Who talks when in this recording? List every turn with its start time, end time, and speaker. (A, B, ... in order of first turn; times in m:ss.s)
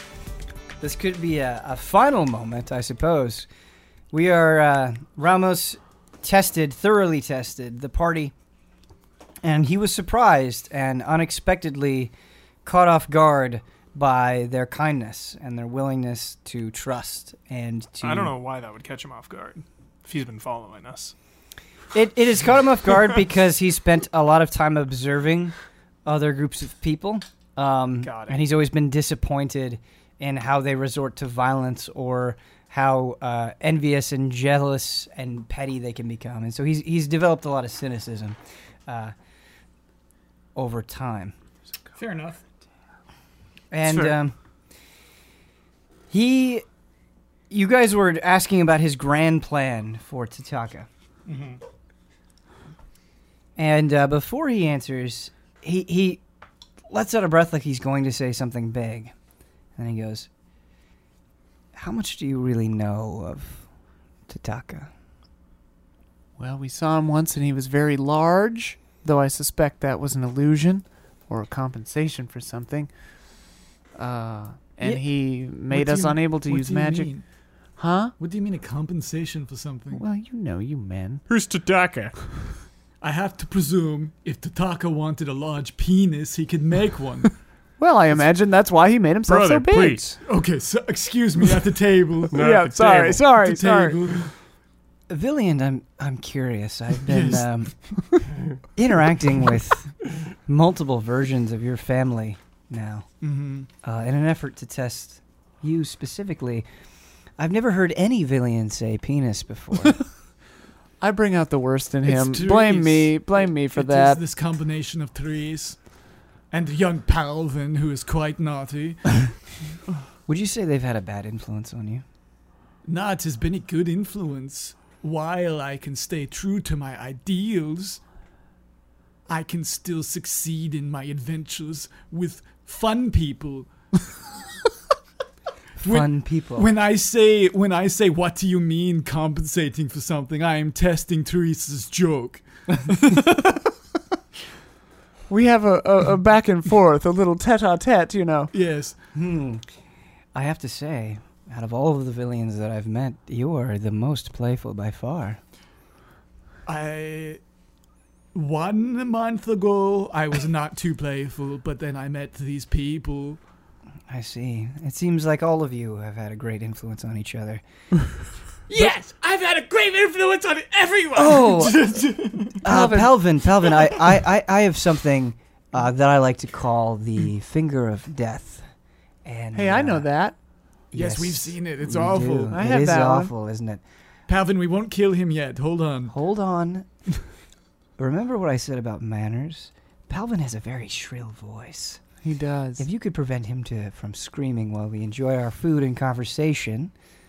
0:00.8-0:03.5 A
0:04.1-0:08.3 A
0:09.4-0:12.1 A
0:12.6-0:18.4 A
0:18.0-0:21.1 B
0:21.9-0:39.1 A
0:28.0-0:28.4 B
0:40.6-0:41.3 A
0:42.0-0:42.4 C
0:43.7-0:44.4 A
0:43.9-0:44.1 B
0:46.1-0:46.6 A
0:47.5-0:50.9 A
0:51.3-0:51.6 C
0:53.6-0:56.2 A
0:56.9-0:59.1 A
0:59.8-1:00.3 A
1:01.7-1:03.7 A
1:04.3-1:04.9 A
1:06.4-1:12.9 D
1:14.0-1:17.1 D
1:15.7-1:17.2 C
1:17.8-1:18.1 D
1:18.2-1:20.0 C
1:19.9-1:21.2 D
1:21.3-1:22.2 E
1:23.0-1:27.3 C
1:27.8-1:30.2 D
1:29.3-1:30.2 E
1:30.2-1:32.6 C
1:32.3-1:33.2 E
1:32.4-1:34.0 D
1:33.2-1:34.3 C
1:35.1-1:38.0 A
1:37.1-1:37.4 C
1:38.8-1:40.0 A
1:40.5-1:43.1 A
1:43.2-1:43.7 C
1:43.8-1:46.7 A
1:47.4-1:50.0 A
1:51.0-1:54.2 D
1:52.0-1:55.9 C
1:56.5-1:59.4 C
2:00.3-2:02.0 A
2:02.8-2:08.0 C
2:09.3-2:13.7 C
2:15.8-2:16.7 A
2:15.8-2:23.5 C
2:25.3-2:28.5 D
2:28.5-2:29.0 C
2:29.1-2:29.6 A
2:30.3-2:35.4 A
2:36.7-2:37.4 C
2:38.3-2:43.4 C
2:44.1-2:47.6 A
2:48.7-2:52.6 C
2:51.2-2:58.7 A
2:52.6-2:53.1 D
2:59.2-3:00.1 A
2:59.6-3:00.4 D
3:00.9-3:02.6 C
3:00.9-3:03.8 A
3:02.5-3:03.3 D
3:04.3-3:06.1 C
3:06.1-3:06.9 A
3:08.0-3:12.0 A
3:12.2-3:12.8 D
3:12.8-3:16.9 A